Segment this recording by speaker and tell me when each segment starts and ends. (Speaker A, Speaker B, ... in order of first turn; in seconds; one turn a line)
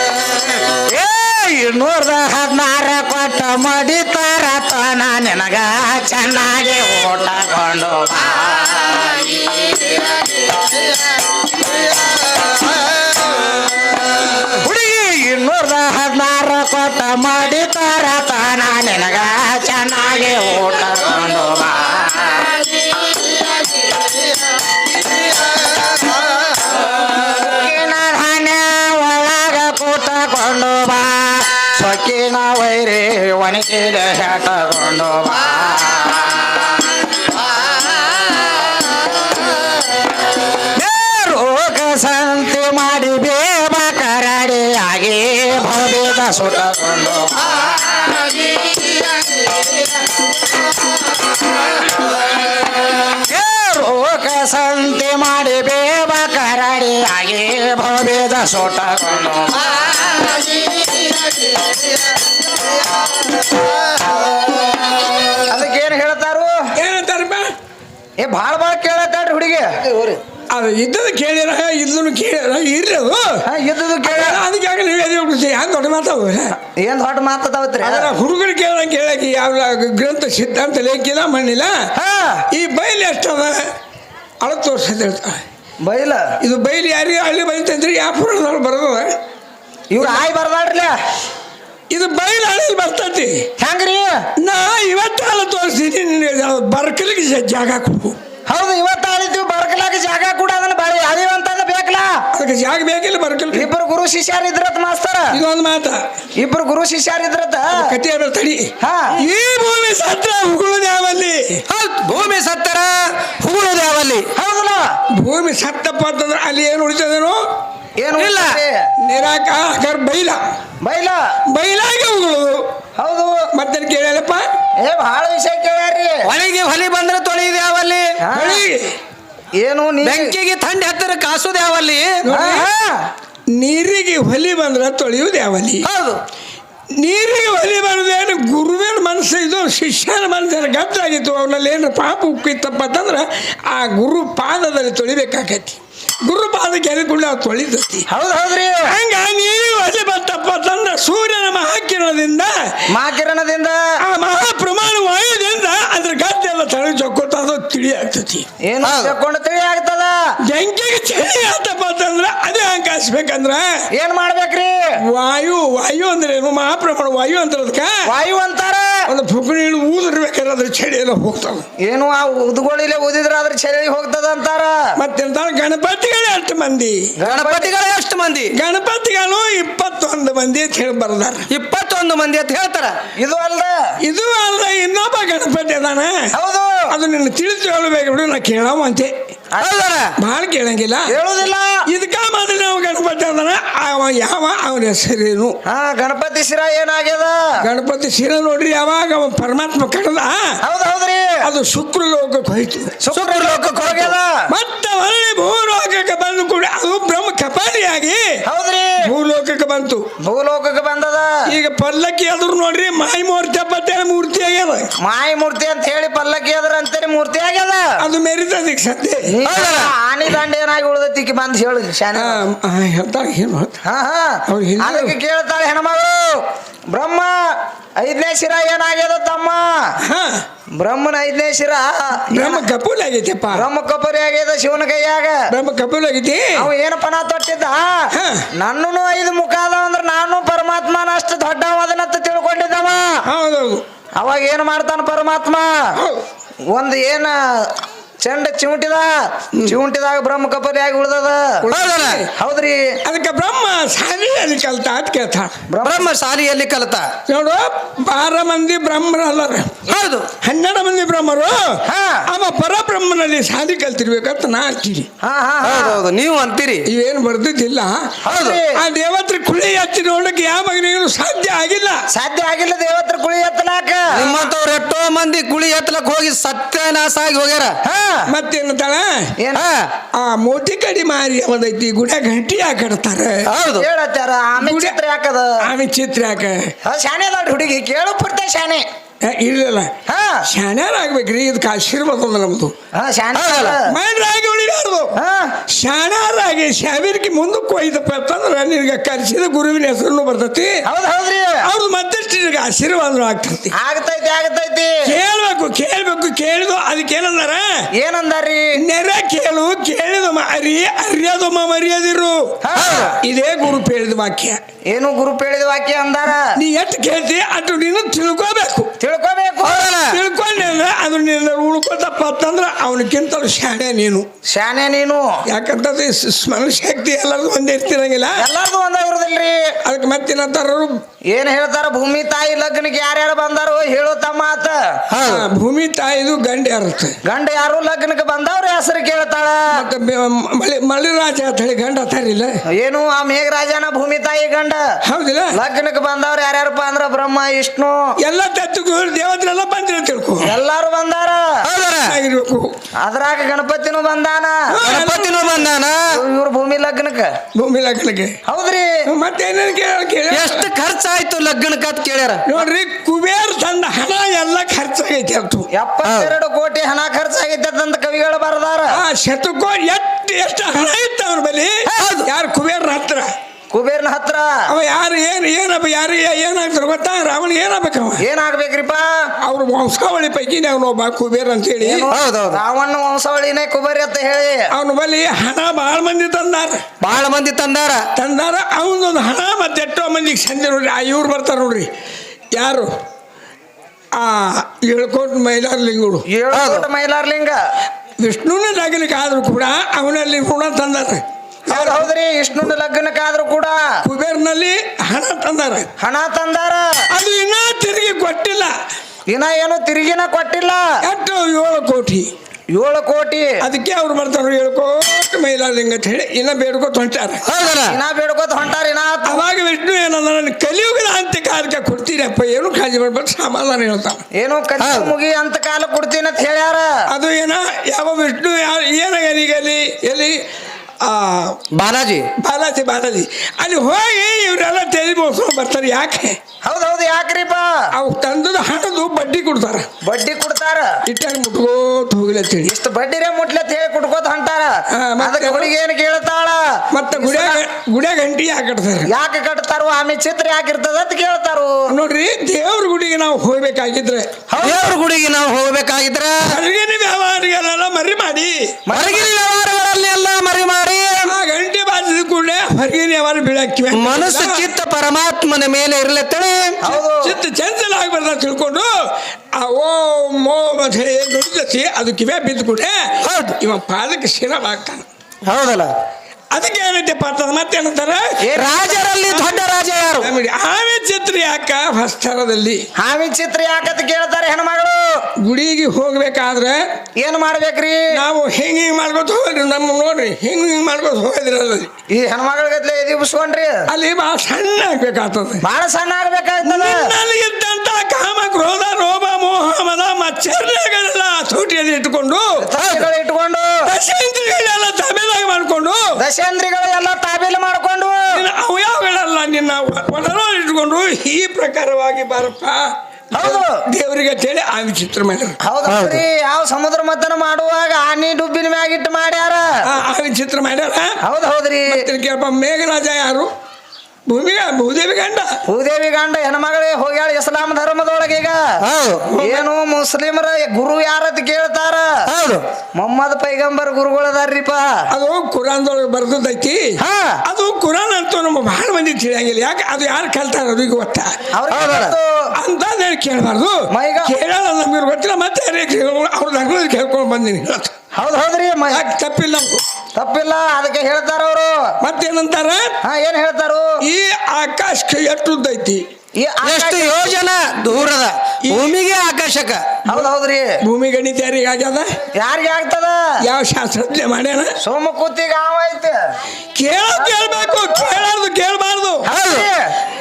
Speaker A: 0.7-10.7
Speaker A: 14.4-23.8
Speaker A: 25.9-38.0
Speaker A: 40.6-49.4
Speaker A: 53.1-61.7
Speaker A: 65.5-66.6
Speaker B: 66.8-67.5
Speaker A: 68.2-70.2
Speaker B: 70.5-73.4
Speaker A: 73.5-74.4
Speaker B: 74.0-76.5
Speaker A: 76.8-78.1
Speaker B: 77.8-81.9
Speaker A: 82.0-82.4
Speaker B: 82.5-83.7
Speaker B: 84.4-85.4
Speaker A: 85.8-86.3
Speaker B: 86.4-89.2
Speaker A: 89.9-90.9
Speaker B: 91.9-93.5
Speaker A: 93.6-94.2
Speaker B: 94.4-98.2
Speaker A: 98.5-102.2
Speaker B: 102.3-103.7
Speaker A: 103.5-105.4
Speaker B: 105.3-106.0
Speaker A: 106.4-107.9
Speaker B: 107.7-111.6
Speaker A: 108.8-109.2
Speaker C: 111.7-114.3
Speaker A: 114.3-114.9
Speaker B: 115.1-117.4
Speaker A: 118.0-118.9
Speaker C: 118.2-118.6
Speaker B: 119.0-120.4
Speaker A: 120.8-121.2
Speaker B: 121.5-122.6
Speaker A: 123.0-123.5
Speaker B: 123.5-124.5
Speaker A: 124.8-126.2
Speaker C: 126.2-128.2
Speaker A: 128.2-128.6
Speaker B: 128.3-128.9
Speaker A: 129.6-130.3
Speaker C: 130.0-132.6
Speaker B: 132.2-132.6
Speaker A: 132.3-133.1
Speaker B: 133.5-135.8
Speaker C: 135.8-136.2
Speaker B: 136.9-148.1
Speaker A: 148.1-148.9
Speaker B: 148.9-152.5
Speaker A: 152.9-153.8
Speaker B: 154.0-158.4
Speaker A: 158.7-160.1
Speaker C: 158.8-159.1
Speaker B: 160.5-163.7
Speaker A: 163.9-164.8
Speaker B: 165.1-168.0
Speaker A: 168.0-168.9
Speaker B: 169.1-171.6
Speaker A: 171.8-174.9
Speaker B: 175.0-177.1
Speaker A: 177.2-177.7
Speaker C: 177.2-178.5
Speaker B: 178.5-181.5
Speaker C: 181.5-182.9
Speaker A: 183.2-183.7
Speaker B: 184.0-186.3
Speaker A: 186.3-186.8
Speaker B: 186.9-189.1
Speaker A: 189.5-189.8
Speaker C: 189.6-190.1
Speaker B: 190.2-191.1
Speaker A: 191.1-191.8
Speaker B: 191.9-195.6
Speaker A: 195.7-197.4
Speaker B: 197.6-200.4
Speaker A: 200.6-201.4
Speaker B: 201.4-203.0
Speaker A: 203.0-204.5
Speaker C: 203.1-204.1
Speaker B: 204.5-208.4
Speaker A: 208.4-209.1
Speaker B: 209.0-210.0
Speaker A: 210.2-211.4
Speaker B: 211.5-214.9
Speaker A: 215.0-218.0
Speaker B: 218.0-219.3
Speaker A: 219.3-222.4
Speaker C: 219.4-219.9
Speaker B: 222.1-223.8
Speaker A: 223.8-229.9
Speaker B: 224.5-225.1
Speaker B: 230.0-230.4
Speaker A: 230.8-232.7
Speaker B: 232.3-233.7
Speaker A: 233.5-235.4
Speaker B: 235.5-236.6
Speaker A: 236.6-243.2
Speaker B: 238.1-238.4
Speaker B: 243.3-243.8
Speaker A: 244.2-245.9
Speaker B: 246.0-246.2
Speaker A: 246.7-251.7
Speaker B: 251.6-252.3
Speaker C: 251.7-252.2
Speaker A: 252.3-252.9
Speaker B: 253.0-255.5
Speaker A: 255.7-256.1
Speaker C: 255.8-257.1
Speaker B: 257.3-259.8
Speaker C: 259.9-260.3
Speaker B: 260.4-265.1
Speaker A: 261.9-262.2
Speaker A: 265.2-266.0
Speaker C: 265.6-266.9
Speaker B: 266.9-268.2
Speaker A: 268.2-268.8
Speaker C: 268.3-268.6
Speaker B: 268.7-272.0
Speaker A: 272.1-274.4
Speaker C: 274.1-277.8
Speaker A: 277.8-278.3
Speaker B: 278.3-279.3
Speaker A: 279.4-279.6
Speaker C: 279.5-279.9
Speaker B: 280.1-283.4
Speaker C: 283.5-283.9
Speaker A: 283.8-285.5
Speaker B: 284.6-285.0
Speaker B: 285.6-286.7
Speaker A: 286.8-288.8
Speaker B: 289.2-289.9
Speaker A: 290.1-290.4
Speaker B: 290.5-292.7
Speaker A: 292.9-293.9
Speaker C: 293.3-293.8
Speaker B: 293.9-295.1
Speaker A: 295.1-295.5
Speaker B: 295.7-300.8
Speaker A: 300.8-301.6
Speaker B: 301.6-303.7
Speaker A: 303.7-304.9
Speaker B: 305.0-307.7
Speaker A: 308.0-308.6
Speaker B: 308.8-312.4
Speaker A: 312.6-313.2
Speaker C: 312.7-313.1
Speaker B: 313.2-314.6
Speaker A: 314.9-316.6
Speaker B: 316.6-318.9
Speaker A: 319.0-319.9
Speaker C: 319.6-320.2
Speaker B: 320.1-324.3
Speaker A: 324.5-325.3
Speaker B: 325.5-328.4
Speaker A: 328.4-329.6
Speaker B: 329.8-331.0
Speaker A: 331.3-335.0
Speaker C: 335.1-335.4
Speaker B: 335.2-337.1
Speaker A: 337.2-339.8
Speaker B: 339.7-342.6
Speaker A: 342.7-344.8
Speaker B: 345.0-345.5
Speaker A: 345.5-348.1
Speaker B: 348.2-350.5
Speaker A: 350.4-351.6
Speaker C: 351.6-352.2
Speaker B: 352.1-352.7
Speaker A: 353.0-354.8
Speaker B: 354.7-355.5
Speaker C: 354.8-356.1
Speaker A: 356.1-357.3
Speaker B: 357.5-358.4
Speaker A: 358.4-358.9
Speaker B: 359.1-360.7
Speaker C: 360.3-362.4
Speaker B: 362.4-365.7
Speaker A: 365.7-369.0
Speaker C: 366.0-366.3
Speaker B: 368.9-373.3
Speaker C: 371.9-372.3
Speaker A: 373.7-374.6
Speaker B: 374.7-378.2
Speaker A: 378.2-379.1
Speaker B: 379.4-382.1
Speaker A: 381.8-384.7
Speaker C: 382.1-382.6
Speaker B: 384.7-386.8
Speaker C: 387.0-388.0
Speaker B: 388.1-391.9
Speaker B: 392.5-392.9
Speaker B: 394.1-396.2
Speaker A: 396.3-397.6
Speaker C: 396.5-396.9
Speaker B: 398.2-402.1
Speaker A: 401.7-403.8
Speaker B: 404.0-405.9
Speaker A: 406.0-407.0
Speaker B: 407.1-408.7
Speaker A: 409.3-410.9
Speaker B: 411.0-412.3
Speaker A: 412.7-413.6
Speaker B: 413.6-417.4
Speaker C: 417.4-417.9
Speaker A: 417.9-419.4
Speaker B: 419.3-424.2
Speaker A: 424.3-426.9
Speaker C: 424.8-425.1
Speaker B: 427.1-430.4
Speaker B: 431.0-431.6
Speaker C: 431.7-432.3
Speaker B: 432.4-436.4
Speaker A: 436.6-437.9
Speaker B: 437.9-439.9
Speaker A: 440.0-441.0
Speaker B: 441.1-442.7
Speaker A: 442.6-447.6
Speaker B: 444.9-445.7
Speaker B: 446.9-449.1
Speaker A: 449.1-451.7
Speaker B: 451.9-454.3
Speaker A: 454.5-454.9
Speaker C: 454.6-456.5
Speaker B: 456.5-458.7
Speaker A: 458.9-459.3
Speaker C: 458.9-461.3
Speaker B: 461.3-464.7
Speaker C: 463.9-466.8
Speaker A: 466.8-467.4
Speaker B: 467.2-468.9
Speaker B: 469.5-475.1
Speaker C: 473.2-473.6
Speaker C: 475.4-475.9
Speaker B: 476.5-478.4
Speaker A: 478.4-479.0
Speaker C: 478.6-480.3
Speaker B: 479.3-479.6
Speaker B: 480.2-482.8
Speaker A: 483.0-485.0
Speaker B: 485.4-486.8
Speaker A: 487.2-488.0
Speaker B: 488.1-491.9
Speaker A: 492.1-493.8
Speaker B: 493.9-495.6
Speaker A: 495.6-497.1
Speaker B: 496.6-502.4
Speaker A: 502.6-503.7
Speaker C: 502.8-503.1
Speaker B: 503.9-506.0
Speaker A: 506.2-508.4
Speaker B: 508.3-515.6
Speaker A: 513.3-513.8
Speaker A: 515.6-519.8
Speaker C: 515.9-516.2
Speaker B: 519.8-521.2
Speaker A: 521.2-522.0
Speaker B: 521.9-523.5
Speaker B: 524.3-525.5
Speaker A: 525.7-528.8
Speaker C: 528.8-529.2
Speaker B: 529.2-529.6
Speaker A: 529.4-532.2
Speaker C: 532.3-532.6
Speaker A: 533.0-535.0
Speaker B: 535.1-541.4
Speaker A: 537.0-537.4
Speaker A: 541.5-542.3
Speaker C: 541.7-542.1
Speaker B: 542.6-547.9
Speaker A: 543.9-544.3
Speaker A: 548.1-549.1
Speaker B: 548.9-549.8
Speaker A: 550.1-551.8
Speaker B: 552.0-553.0
Speaker A: 553.0-553.9
Speaker B: 554.0-556.0
Speaker A: 556.4-557.3
Speaker C: 556.6-560.0
Speaker B: 558.6-558.9
Speaker A: 560.1-560.8
Speaker B: 560.8-562.1
Speaker A: 562.3-563.2
Speaker B: 563.4-564.7
Speaker A: 564.8-566.2
Speaker B: 566.8-569.3
Speaker A: 567.1-568.2
Speaker A: 569.2-569.9
Speaker C: 569.3-569.6